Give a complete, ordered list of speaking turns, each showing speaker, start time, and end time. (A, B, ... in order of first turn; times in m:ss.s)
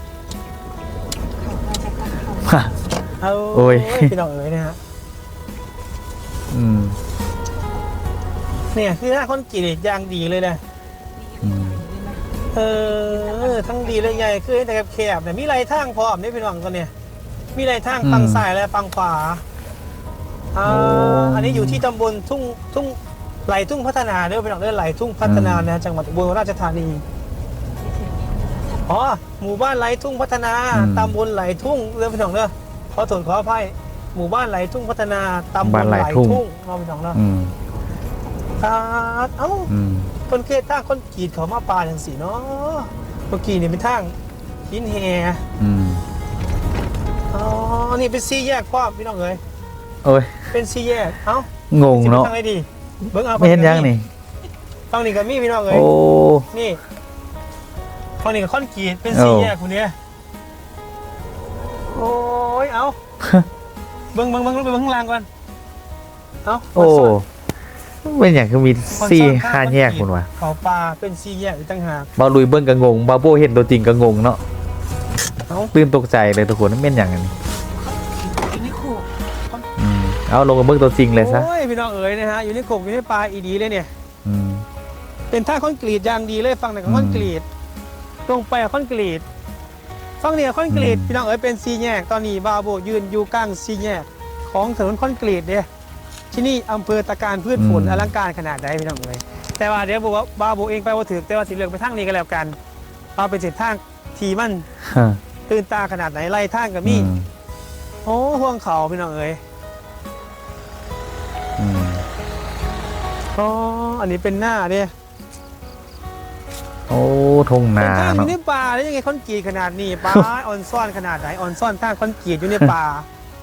0:01.4-0:03.1 A
0:02.4-0:02.7 B
0:03.2-0:04.8 C
0:03.5-0:04.1 B
0:06.5-0:07.0 B
0:08.7-0:10.6 C
0:11.1-0:14.3 A
0:11.4-0:11.8 B
0:12.5-0:16.9 C
0:17.5-0:19.4 C
0:18.0-0:18.4 B
0:20.5-0:27.0 C
0:20.6-0:21.8 B
0:25.2-0:25.7 B
0:27.8-0:28.8 A
0:28.8-0:37.2 C
0:30.7-0:31.2 B
0:35.6-0:36.4 B
0:37.1-0:37.5 B
0:38.6-0:39.7 C
0:39.7-0:40.1 B
0:40.3-0:44.1 C
0:44.7-0:45.4 C
0:45.6-0:46.0 B
0:47.3-0:49.4 C
0:50.0-0:50.5 B
0:50.5-0:53.9 C
0:51.7-0:52.3 B
0:53.4-0:54.1 B
0:54.9-0:55.9 C
0:55.7-0:56.5 B
0:56.5-0:56.8 C
0:58.2-0:59.9 C
0:59.1-0:59.5 B
1:01.9-1:03.0 C
1:04.1-1:05.3 C
1:06.4-1:07.1 C
1:06.7-1:07.2 B
1:08.0-1:10.3 B
1:08.9-1:12.1 C
1:12.2-1:14.4 B
1:15.7-1:17.3 B
1:17.9-1:19.1 A
1:19.8-1:21.5 B
1:21.1-1:23.9 C
1:24.2-1:24.6 B
1:25.3-1:27.4 C
1:26.8-1:27.3 B
1:28.3-1:29.2 C
1:30.2-1:35.7 C
1:30.7-1:31.1 B
1:36.3-1:42.6 C
1:37.6-1:38.1 B
1:43.2-1:44.7 C
1:44.8-1:45.2 B
1:45.5-1:47.1 C
1:46.8-1:47.3 B
1:48.0-1:49.4 C
1:51.6-1:52.0 B
1:53.3-1:54.9 C
1:56.9-1:58.3 B
1:57.8-2:03.0 C